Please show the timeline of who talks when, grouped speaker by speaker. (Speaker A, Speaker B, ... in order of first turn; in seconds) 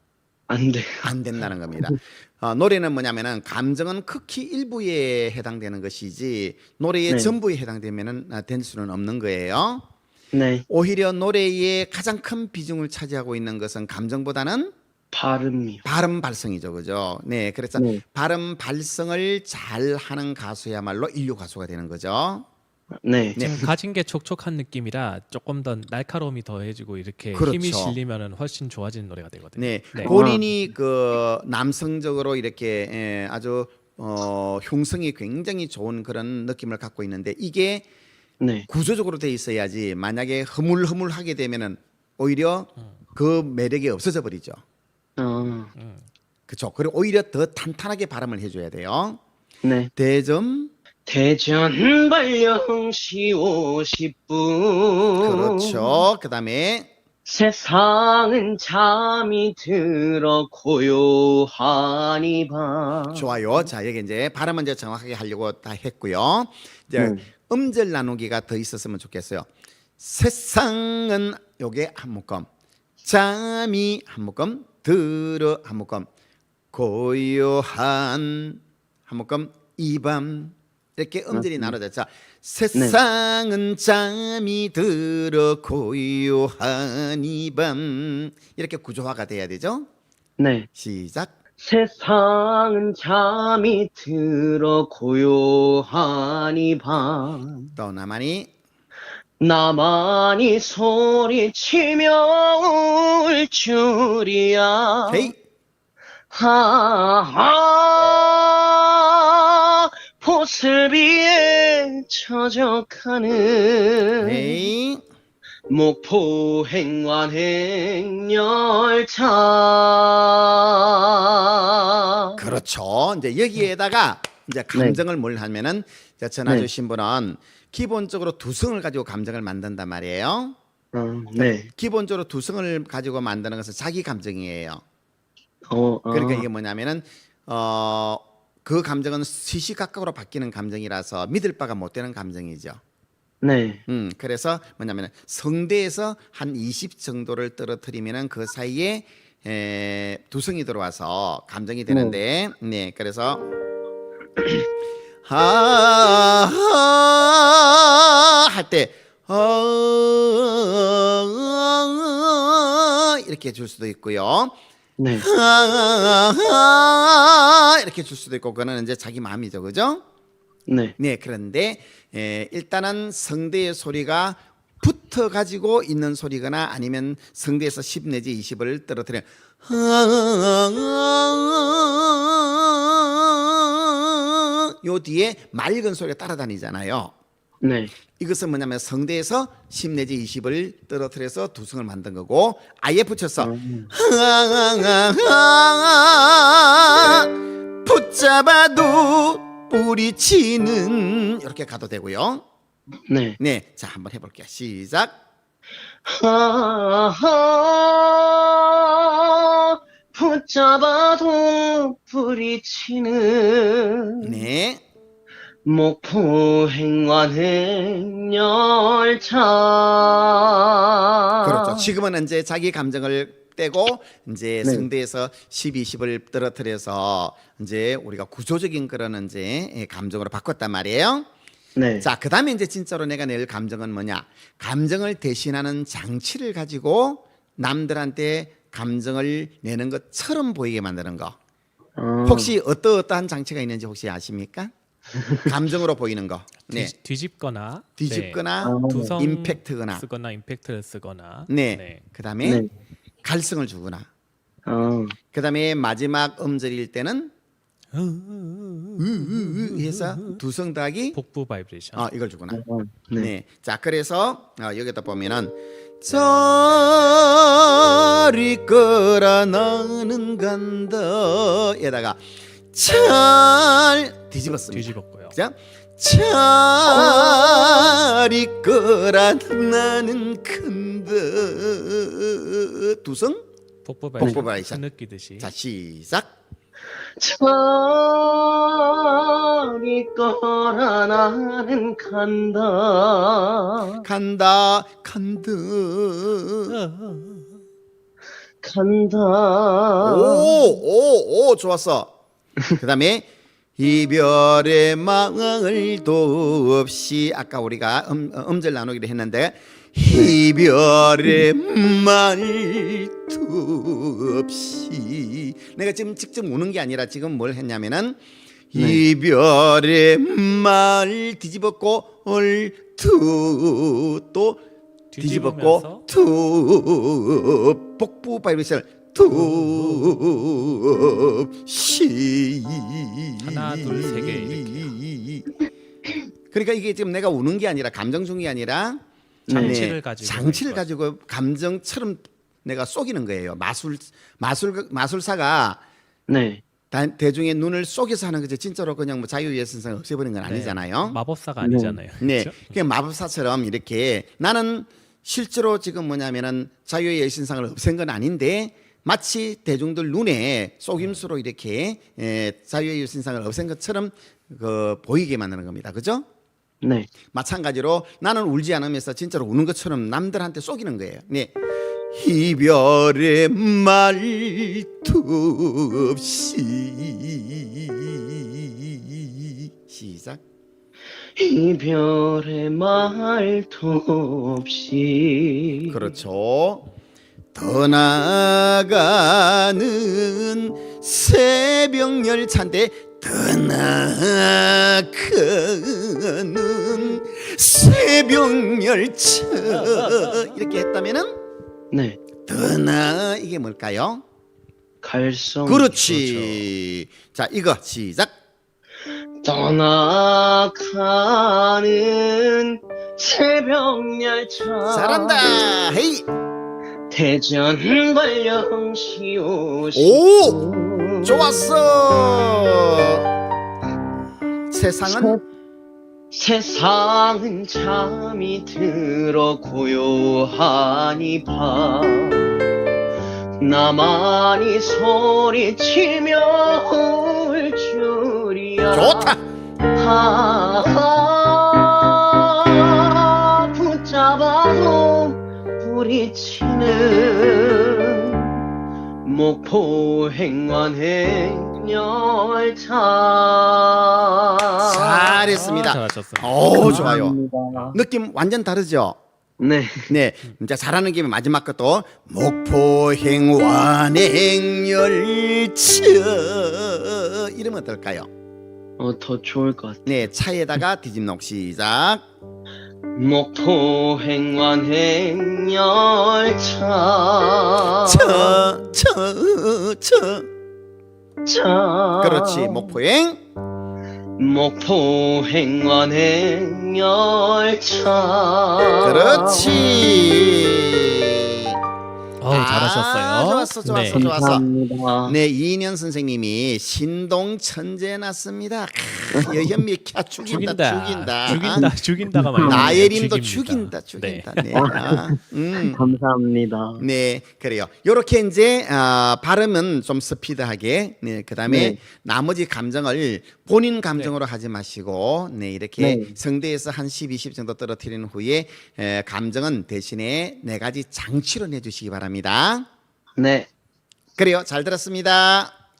Speaker A: 0.5-1.1, 7.1-7.3, 10.3-10.6, 15.1-15.8, 17.8-18.0, 23.0-23.7, 30.0-30.4, 38.4-38.7, 45.2-45.7, 49.6-49.9, 51.0-56.0, 57.2-63.4, 67.0-67.3, 81.3-81.7, 82.7-83.0, 90.4-90.7, 91.6-97.7, 99.4-105.3, 106.3-114.5, 115.7-122.4, 124.7-125.0, 130.9-131.7, 135.7-136.5, 143.4-143.8, 151.9-152.2, 165.0-165.2, 170.7-170.9, 187.6-187.9, 193.4-193.9, 203.1-203.4, 206.1-214.3, 215.7-221.9, 224.6-224.9, 231.8-232.1, 241.9-242.5, 245.2-245.5, 248.6-249.2, 254.7-255.2, 262.5-263.3, 287.2-294.0, 298.6-300.6, 318.7-319.0, 339.5-339.8, 346.3-346.6, 351.6-352.0, 366.8-367.1, 381.4-386.0, 401.9-402.2, 405.0-406.0, 409.4-415.6, 417.1-421.7, 425.0-425.4, 426.3-432.5, 433.6-439.3, 439.9-448.6, 449.2-455.4, 456.8-458.0, 459.6-460.2, 469.0-470.1, 473.1-478.7, 481.4-482.9, 484.4-489.9, 494.1-495.4, 499.3-499.8, 501.4-503.0, 504.7-507.0, 511.7-512.0, 516.0-516.4, 523.4-523.7
Speaker B: 1.0-9.8, 10.7-14.7, 15.8-22.4, 23.3-23.6, 27.3-28.0, 29.6-37.9, 38.7-44.6, 46.5-49.2, 50.0-50.7, 55.2-56.9, 63.1-69.5, 70.0-72.5, 73.0-76.1, 76.7-89.9, 90.7-91.3, 97.8-98.5, 105.1-105.3, 114.2-115.0, 122.4-130.6, 131.4-134.8, 136.1-142.8, 143.9-153.4, 155.2-164.5, 165.1-170.0, 171.0-187.1, 188.1-197.3, 197.8-202.4, 203.4-205.1, 214.2-214.8, 221.4-231.3, 232.0-241.3, 242.2-244.7, 245.4-246.9, 248.0-250.1, 251.5-252.6, 253.2-254.1, 255.3-257.3, 259.0-261.2, 261.9-262.6, 263.2-267.6, 268.3-283.4, 284.2-284.8, 285.4-286.3, 294.0-296.8, 300.0-302.1, 302.8-303.3, 303.8-318.2, 318.7-324.6, 325.2-335.5, 336.5-339.0, 339.5-345.8, 346.9-351.2, 352.2-366.2, 367.3-371.5, 372.1-380.4, 385.9-386.9, 387.5-401.4, 402.4-404.2, 405.6-408.3, 414.9-416.2, 419.9-420.6, 421.2-423.2, 424.7-425.4, 438.9-439.4, 454.8-457.4, 457.9-459.2, 460.1-468.3, 470.0-472.2, 478.0-480.5, 482.2-483.4, 488.8-491.8, 492.5-494.6, 495.2-501.8, 502.6-506.0, 507.0-522.9, 524.4-525.7
Speaker C: 23.4-30.1, 45.8-46.1, 246.7-252.0, 257.9-260.4, 261.1-262.1, 274.5-275.4, 283.8-285.5, 296.7-297.5, 325.1-326.1, 329.3-330.4, 333.4-334.9, 339.5-340.8, 350.4-352.8, 361.0-361.2, 399.6-400.5, 406.1-406.6, 455.3-457.2, 457.7-458.0, 492.4-494.3, 500.4-504.8